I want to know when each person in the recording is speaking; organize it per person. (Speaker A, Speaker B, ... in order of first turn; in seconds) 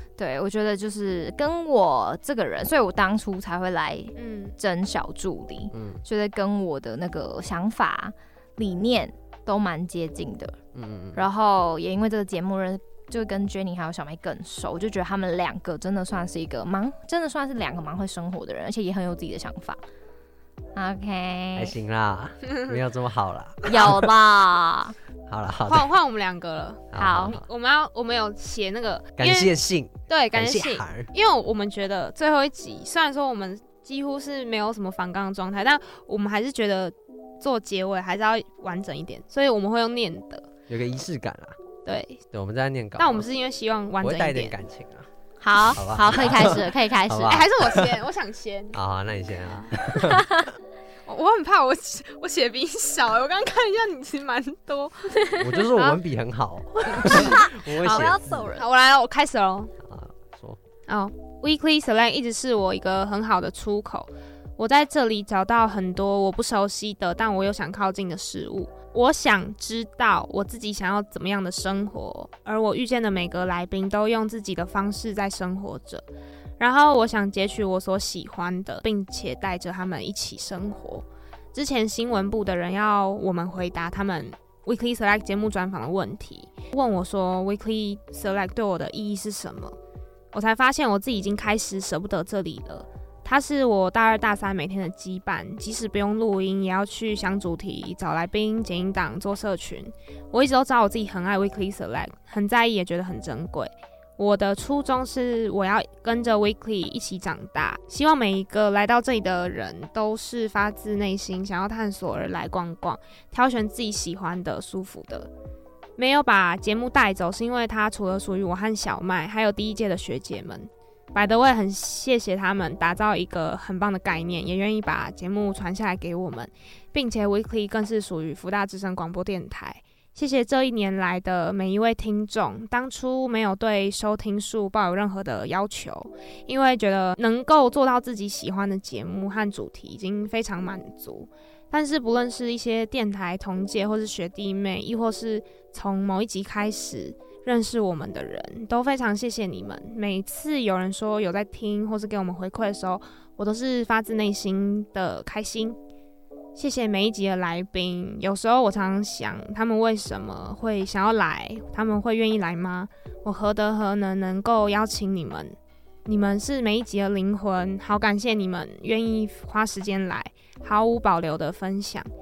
Speaker A: 0.2-10.6, 11.2-19.8, 20.7-21.8, 23.7-25.0, 26.9-27.4, 45.4-47.4, 56.9-58.6
Speaker B: 4.2-4.6, 25.7-29.5, 30.1-40.5, 41.9-42.2, 43.0-44.6, 47.3-48.8, 49.5-49.8, 51.1-55.4, 56.9-59.7, 60.9-76.0, 76.6-89.8, 90.3-115.3, 116.0-155.8, 156.6-172.1
Speaker C: 5.7-6.0, 10.7-11.3, 21.6-24.1, 25.3-25.9, 26.9-27.4, 29.2-31.1, 40.7-41.6, 42.3-43.3, 44.0-45.1, 45.7-48.0, 48.7-50.3, 55.4-58.5, 59.8-60.6